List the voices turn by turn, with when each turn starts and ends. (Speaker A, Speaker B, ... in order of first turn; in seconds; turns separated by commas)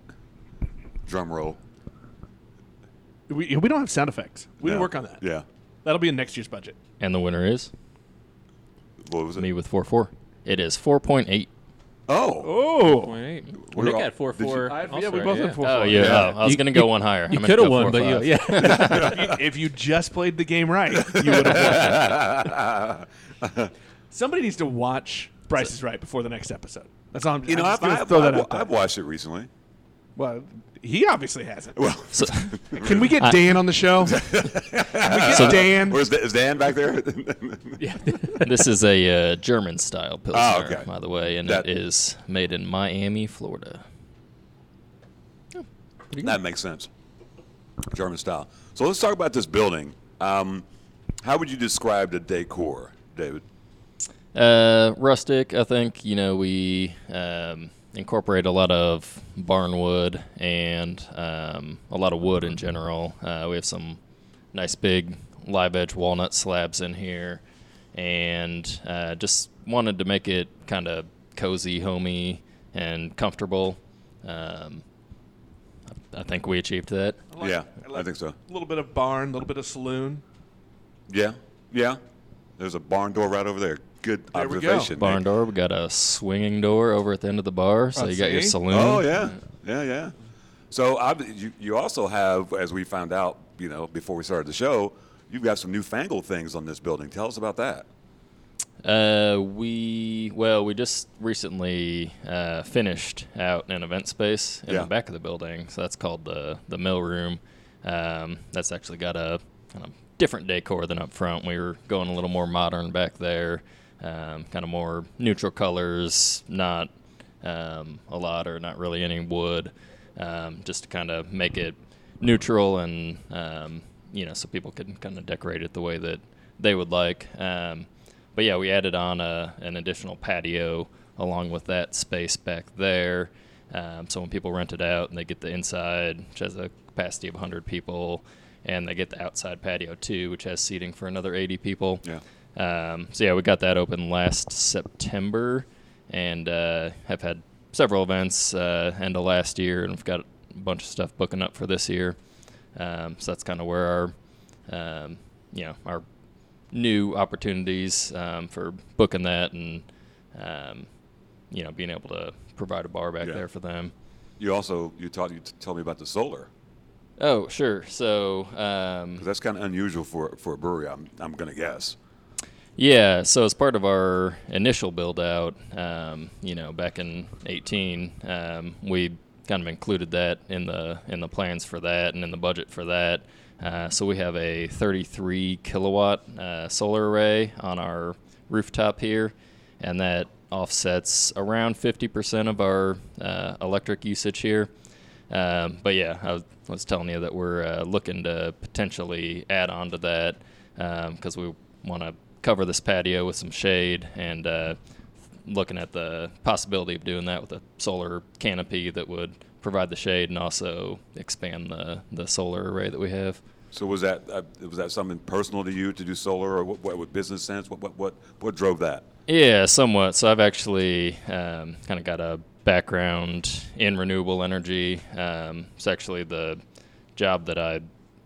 Speaker A: 1.1-1.6, Speaker B: 3.3-5.2, Speaker A: 4.6-5.4, Speaker B: 5.8-6.8, Speaker C: 7.0-7.7, Speaker A: 9.0-9.5, Speaker C: 9.4-11.5, Speaker A: 12.1-12.6, Speaker B: 12.4-13.2, Speaker D: 12.8-19.1, Speaker A: 13.6-14.7, Speaker B: 14.7-16.2, Speaker C: 15.6-19.1, Speaker A: 15.9-16.3, Speaker B: 18.6-22.2, Speaker A: 18.8-19.3, Speaker A: 20.9-23.7, Speaker B: 24.1-28.7, Speaker A: 27.4-29.5, Speaker B: 30.1-31.9, Speaker A: 31.7-33.2, Speaker C: 32.1-32.6, Speaker B: 32.7-34.3, Speaker A: 34.0-37.8, Speaker B: 34.9-36.0, Speaker C: 35.3-35.6, Speaker D: 37.8-38.5, Speaker C: 38.4-43.8, Speaker A: 40.3-40.9, Speaker A: 46.2-46.9, Speaker A: 47.9-50.6, Speaker A: 51.2-53.4, Speaker C: 54.3-64.0, Speaker C: 64.5-67.4, Speaker C: 67.9-74.8, Speaker C: 75.9-77.2, Speaker B: 77.3-80.2, Speaker A: 77.4-78.3, Speaker A: 81.1-82.0, Speaker A: 82.6-85.2, Speaker B: 84.3-85.0, Speaker C: 85.0-89.3, Speaker B: 88.0-88.6, Speaker A: 88.7-90.1, Speaker A: 90.7-97.9, Speaker C: 98.8-116.9, Speaker C: 117.4-142.0, Speaker C: 142.5-152.2, Speaker C: 152.7-154.1, Speaker C: 154.7-156.0, Speaker C: 156.7-160.9, Speaker C: 161.5-163.9, Speaker A: 164.4-166.5, Speaker C: 167.2-169.2, Speaker A: 169.2-171.9, Speaker C: 172.8-194.7, Speaker C: 195.3-204.8, Speaker C: 205.4-213.4, Speaker A: 213.7-219.0, Speaker C: 219.3-226.6, Speaker C: 227.2-227.8